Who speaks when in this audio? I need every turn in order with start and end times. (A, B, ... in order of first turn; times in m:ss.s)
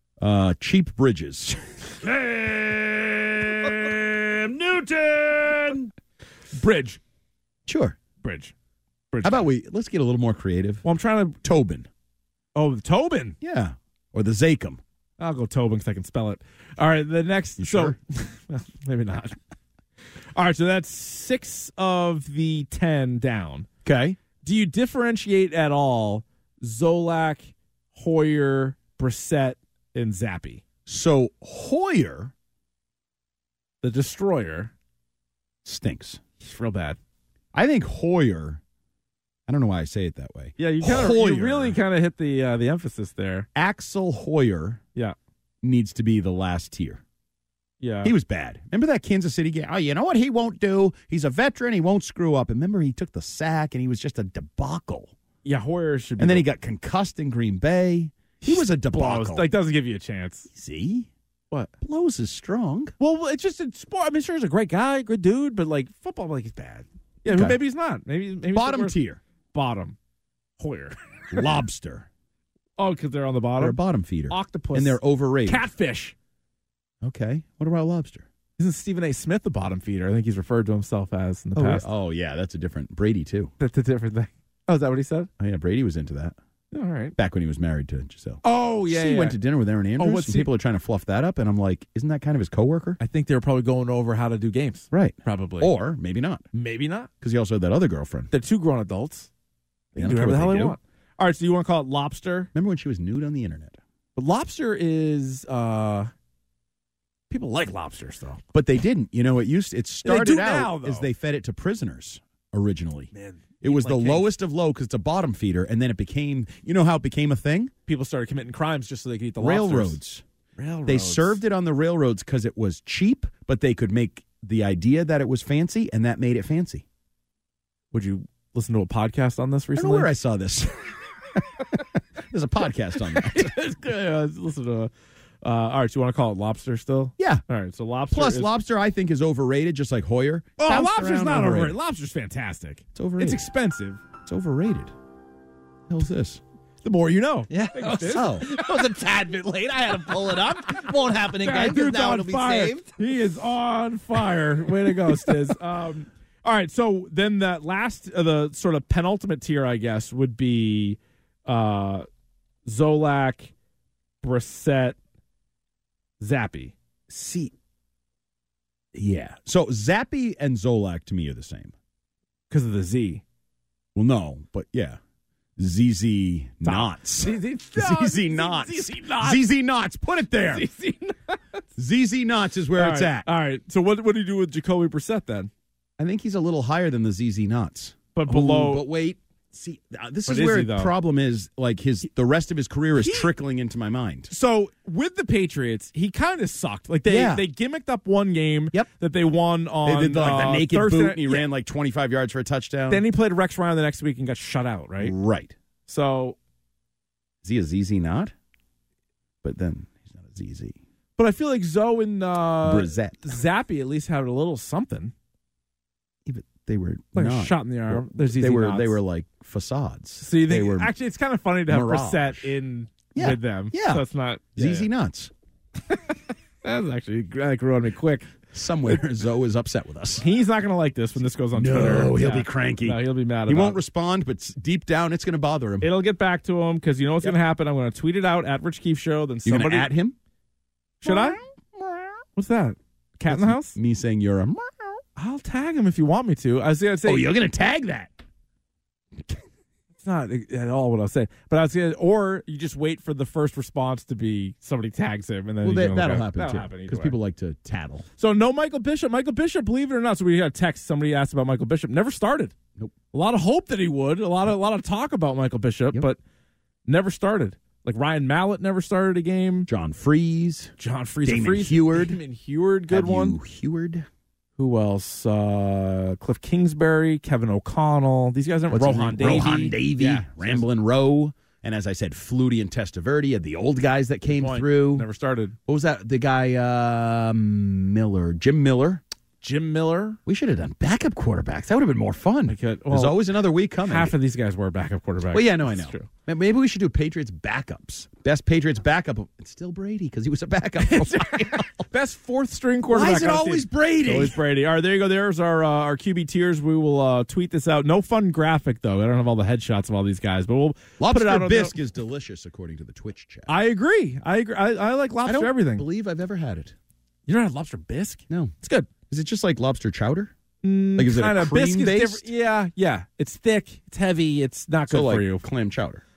0:00.2-0:02.1 A
0:03.7-0:05.9 A
0:06.5-0:07.0 B
0:07.7-0:08.0 A
0:08.2-0:08.5 B
0:09.1-0:09.5 B
0:09.2-0:10.8 A
0:10.8-0:11.4 B
0:11.4-0:11.9 A
0:12.5-0:13.4 B
0:13.4-0:14.8 A
0:15.2-0:19.4 B
0:17.6-0:18.0 A
0:20.3-0:23.6 B
0:23.8-0:24.2 A
0:24.4-0:30.6 B
0:30.9-0:32.3 A
0:33.8-0:34.7 B
0:35.6-0:36.2 A
0:36.4-0:37.0 B
0:37.5-0:38.6 A
0:39.5-0:41.8 A
0:40.6-0:43.5 B
0:43.5-0:44.8 A
0:45.6-0:47.0 A
0:47.8-0:48.1 B
0:48.0-0:55.1 A
0:55.4-0:56.4 B
0:56.2-0:59.5 A
0:58.4-1:00.5 B
1:00.5-1:01.1 A
1:01.8-1:02.9 A
1:03.0-1:09.0 B
1:07.2-1:07.6 A
1:08.5-1:09.2 A
1:09.5-1:10.0 B
1:10.6-1:11.5 B
1:11.3-1:12.1 A
1:12.8-1:13.8 B
1:13.6-1:15.7 A
1:14.3-1:16.1 B
1:17.0-1:18.2 A
1:18.6-1:21.8 B
1:21.5-1:23.5 A
1:23.6-1:25.3 B
1:25.4-1:26.3 A
1:26.7-1:27.2 B
1:27.2-1:33.0 A
1:28.4-1:29.4 B
1:30.0-1:30.5 B
1:33.0-1:35.7 B
1:34.9-1:36.4 A
1:36.5-1:37.1 B
1:37.2-1:38.3 A
1:38.3-1:39.3 B
1:39.9-1:40.8 A
1:40.0-1:42.5 B
1:42.5-1:43.8 A
1:44.2-1:46.1 B
1:47.3-1:48.4 B
1:48.5-1:57.7 A
1:50.0-1:51.1 B
1:53.1-1:54.3 B
1:57.8-2:00.0 B
1:59.4-2:00.2 A
2:00.6-2:01.4 B
2:00.8-2:06.8 A
2:07.9-2:10.1 B
2:09.8-2:13.5 A
2:13.1-2:14.9 B
2:15.4-2:18.5 B
2:17.2-2:17.4 A
2:18.1-2:21.8 A
2:20.6-2:24.0 B
2:22.9-2:23.5 A
2:24.2-2:24.9 A
2:25.9-2:26.4 A
2:26.8-2:28.4 B
2:27.5-2:32.9 C
2:28.1-2:28.5 A
2:31.4-2:42.0 B
2:42.6-2:43.5 B
2:44.2-2:45.0 B
2:46.2-2:46.8 B
2:47.1-2:47.5 A
2:48.9-2:51.7 A
2:52.5-2:53.2 B
2:53.9-2:55.0 A
2:55.6-3:00.7 A
2:56.6-2:59.4 B
3:00.5-3:01.6 B
3:01.8-3:03.3 A
3:02.7-3:05.5 B
3:06.0-3:14.3 A
3:08.1-3:08.8 B
3:10.3-3:10.9 B
3:13.0-3:13.3 B
3:14.3-3:21.5 B
3:17.0-3:17.4 A
3:19.8-3:23.0 A
3:22.9-3:25.1 B
3:25.0-3:25.5 A
3:25.9-3:26.4 B
3:27.4-3:28.3 A
3:29.4-3:30.8 A
3:31.2-3:35.1 B
3:32.6-3:33.4 A
3:36.2-3:40.9 A
3:37.1-3:39.0 B
3:40.2-3:44.9 B
3:41.7-3:42.5 A
3:43.1-3:45.3 A
3:45.9-3:48.3 B
3:48.5-3:50.2 A
3:50.2-3:53.8 B
3:51.5-3:55.9 A
3:55.8-3:59.9 B
3:59.4-4:00.2 A
4:01.0-4:02.2 A
4:01.0-4:01.4 B
4:02.4-4:03.8 B
4:03.3-4:05.0 A
4:05.2-4:07.3 B
4:07.0-4:08.1 A
4:10.0-4:17.2 B
4:15.6-4:18.0 A
4:18.2-4:22.5 B
4:23.1-4:26.2 B
4:26.8-4:29.7 B
4:29.7-4:32.2 A
4:30.8-4:33.4 B
4:32.9-4:34.0 A
4:34.6-4:40.6 B
4:38.7-4:45.0 A
4:44.3-4:45.6 B
4:45.7-4:49.0 A
4:49.4-4:50.2 B
4:50.2-4:54.1 A
4:52.5-4:53.2 B
4:53.8-4:56.1 B
4:55.3-5:01.9 A
5:00.8-5:11.8 B
5:02.9-5:04.4 A
5:11.0-5:13.5 A
5:13.5-5:15.8 B
5:15.2-5:16.8 A
5:17.3-5:18.9 B
5:19.1-5:20.3 A
5:20.6-5:25.4 B
5:21.0-5:22.3 A
5:24.9-5:26.0 A